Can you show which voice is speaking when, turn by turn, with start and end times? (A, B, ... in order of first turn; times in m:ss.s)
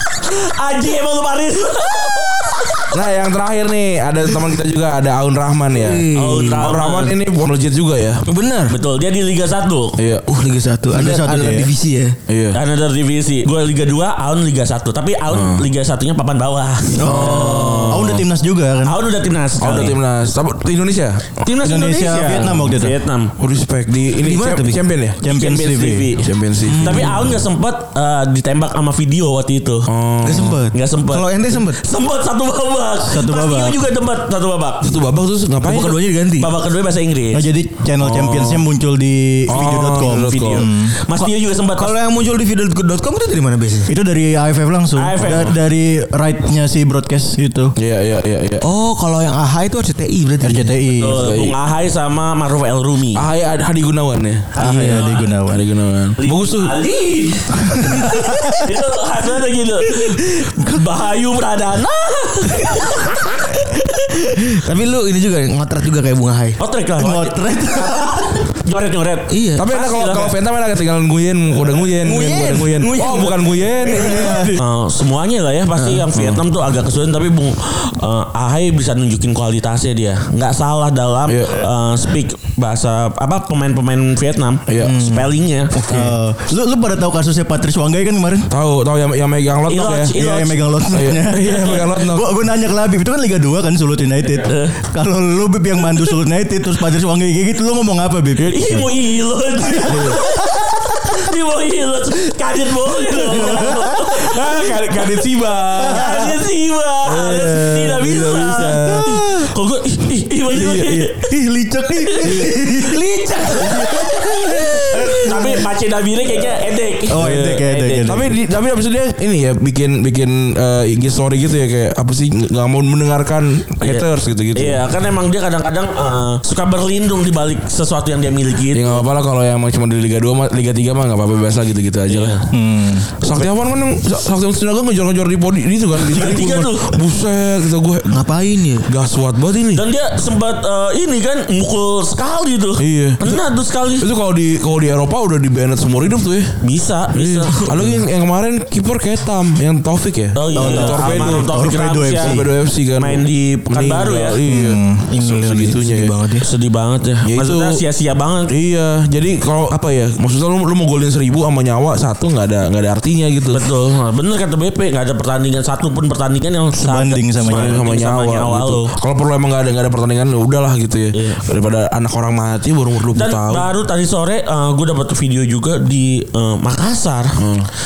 0:00.1-0:02.9 A
0:02.9-0:06.1 B
0:05.7-0:06.7 C
0:06.1-0:07.1 A
0:06.6-0:08.2 B
0:08.3-0:08.8 C
0:08.7-0:10.0 A
0:10.0-0:10.2 B
0:10.3-0:12.2 C
0:10.9-0:11.7 D
0:12.3-0:12.6 B
0:12.5-0:18.2 A
0:15.3-0:15.7 B
0:17.0-0:19.0 D
0:17.0-0:18.2 B
0:18.8-0:20.0 A
0:19.6-0:21.4 B
0:21.4-0:23.3 A
0:21.6-0:23.0 D
0:23.4-0:25.2 B
0:24.2-0:24.8 C
0:25.2-0:26.2 D
0:25.3-0:29.9 A
0:26.2-0:27.2 B
0:26.7-0:27.2 C
0:29.9-0:30.6 B
0:30.2-0:31.8 C
0:30.7-0:35.0 A
0:33.0-0:33.8 D
0:34.8-0:36.0 B
0:35.6-0:36.5 C
0:36.4-0:37.5 A
0:37.3-0:41.0 D
0:38.0-0:38.6 B
0:39.5-0:40.7 B
0:39.5-0:41.9 A
0:41.2-0:43.9 C
0:43.9-0:47.7 D
0:45.0-0:45.6 A
0:47.8-0:48.6 B
0:48.6-0:50.8 C
0:50.4-0:51.3 D
0:50.9-0:53.2 A
0:51.1-0:51.6 B
0:53.1-0:54.8 B
0:54.6-0:55.6 D
0:54.6-0:55.3 A
0:54.6-0:55.0 C
0:55.4-0:56.7 B
0:56.2-1:03.8 A
0:57.7-0:58.5 D
1:00.0-1:00.5 C
1:03.6-1:06.6 C
1:06.6-1:10.3 A
1:07.0-1:08.4 D
1:09.3-1:09.7 C
1:09.6-1:14.5 B
1:12.0-1:14.6 C
1:13.9-1:14.5 D
1:14.5-1:25.8 A
1:15.8-1:16.0 C
1:16.1-1:16.4 B
1:21.3-1:21.7 B
1:24.7-1:25.1 B
1:24.8-1:25.3 C
1:25.8-1:28.5 D
1:28.5-1:30.2 B
1:29.7-1:30.6 A
1:30.1-1:38.9 D
1:30.9-1:32.3 B
1:31.4-1:31.9 A
1:34.4-1:34.7 A
1:38.4-1:44.9 A
1:39.7-1:40.9 D
1:39.9-1:40.2 B
1:43.2-1:44.4 D
1:44.1-1:46.1 B
1:45.7-1:46.4 D
1:45.8-1:51.3 A
1:47.2-1:49.2 B
1:47.3-1:48.0 D
1:48.6-1:49.5 D
1:50.5-1:51.0 B
1:51.1-1:55.6 D
1:52.0-1:52.5 A
1:52.8-1:54.1 C
1:53.6-1:58.2 A
1:55.0-1:55.6 C
1:57.1-1:58.3 D
1:58.0-2:04.8 B
2:03.8-2:09.0 A
2:08.7-2:12.5 B
2:12.1-2:12.4 A
2:12.5-2:13.1 D
2:13.2-2:18.2 B
2:16.0-2:17.0 A
2:18.1-2:18.9 C
2:18.9-2:19.8 B
2:19.7-2:24.1 A
2:22.8-2:23.4 B
2:24.0-2:26.6 B
2:26.6-2:28.0 A
2:27.1-2:31.5 B
2:30.3-2:34.4 A
2:30.5-2:32.5 D
2:32.2-2:36.1 B
2:34.4-2:35.0 D
2:35.1-2:36.5 C
2:36.4-2:38.5 A
2:37.2-2:37.8 B
2:38.5-2:43.6 B
2:43.5-2:48.9 A
2:46.8-2:47.8 D
2:47.5-2:53.7 B
2:51.1-2:51.4 A
2:53.1-2:57.4 A
2:57.4-2:57.7 B